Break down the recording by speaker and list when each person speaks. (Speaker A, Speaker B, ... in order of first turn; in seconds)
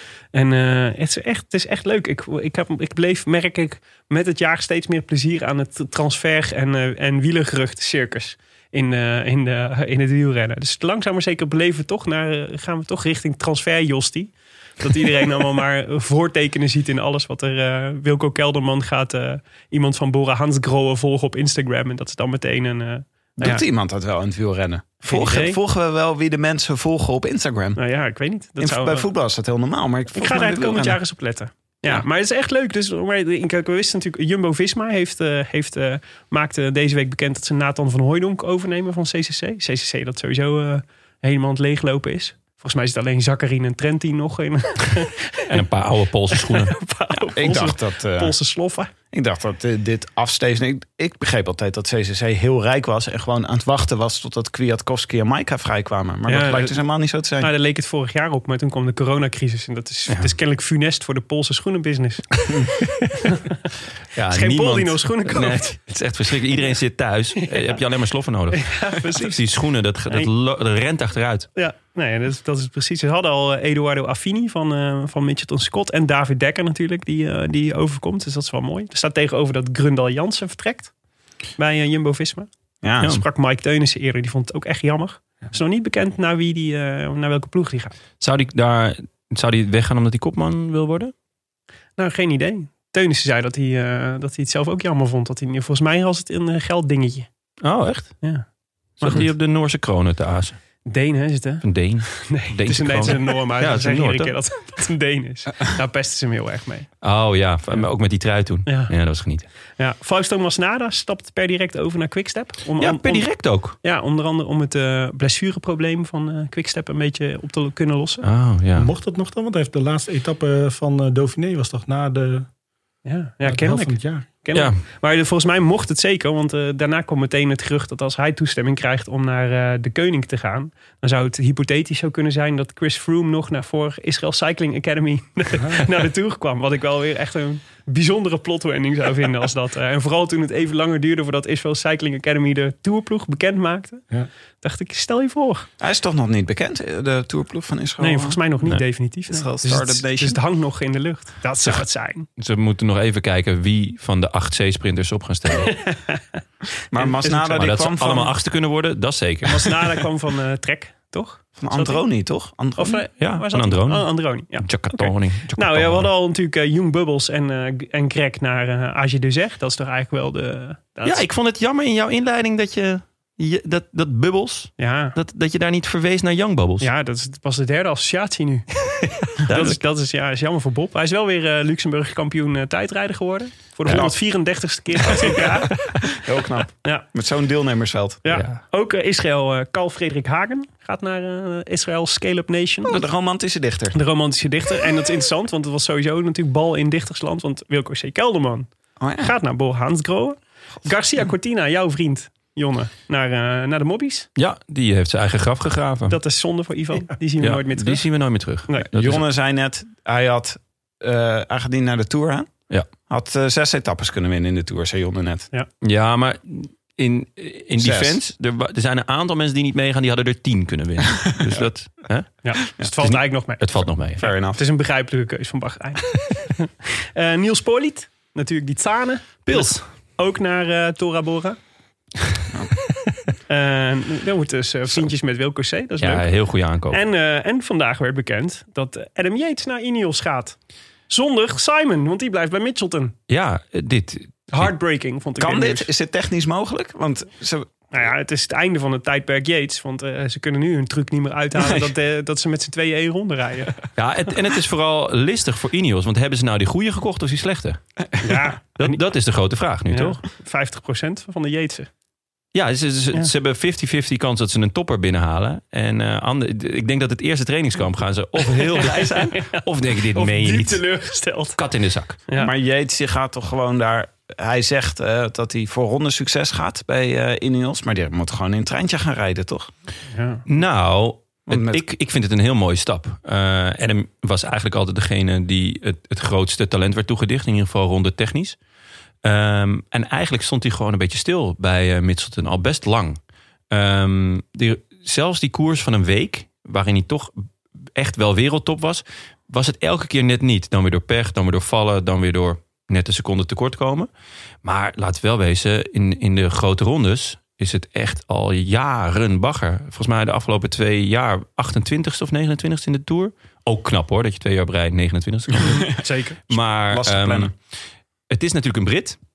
Speaker A: 0.3-23.6, 25.0-25.6, 27.8-29.1, 30.1-45.6, 46.3-48.9, 56.3-56.8, 57.4-62.4, 63.1-63.6, 64.3-65.8, 67.4-67.8, 68.5-69.4, 71.5-80.9, 81.6-82.5, 83.0-88.0, 92.0-97.3, 99.0-99.3, 100.9-106.9, 108.7-108.9, 109.8-118.3, 123.0-144.1, 144.6-145.7, 148.0-152.3, 155.7-156.2, 157.0-157.7, 159.4-162.0, 162.8-171.2, 174.8-175.2, 176.8-178.7, 179.2-185.8, 188.2-193.0, 193.9-204.3, 206.1-208.1, 222.4-231.6, 233.5-236.3, 236.9-240.6, 241.1-243.2, 244.5-245.9, 247.9-253.8, 258.2-259.0, 259.9-261.9, 268.4-271.6, 280.1-280.4, 315.6-316.4
Speaker B: 23.4-27.8, 28.6-31.0, 47.4-48.4, 49.1-57.5, 82.8-83.1, 145.8-148.4, 149.3-150.4, 156.9-158.3, 161.6-163.0, 183.8-184.2, 185.1-185.5, 186.1-188.2, 192.9-194.0, 199.0-199.3, 208.9-212.6, 213.1-215.5, 217.8-218.2, 224.2-224.6, 245.4-247.9, 272.4-279.7, 281.5-281.8, 316.5-317.5
Speaker C: 45.5-46.8, 64.2-71.5, 88.2-91.1, 97.6-98.2, 99.0-100.6, 101.6-104.3, 107.0-109.5, 112.8-113.8, 118.2-118.9, 152.4-155.9, 157.3-160.0, 163.2-166.1, 171.0-176.9, 179.2-179.8, 188.3-188.6, 204.4-206.2, 207.4-209.2, 215.8-224.3, 229.5-229.8, 236.0-237.0, 243.3-244.7, 254.0-257.8, 258.8-260.2, 262.5-270.8, 271.6-272.2, 280.5-288.6, 289.2-293.2, 293.7-297.3, 297.9-304.1, 304.6-317.5, 318.3-319.2
Speaker D: 118.8-122.5, 123.5-124.3, 135.6-135.8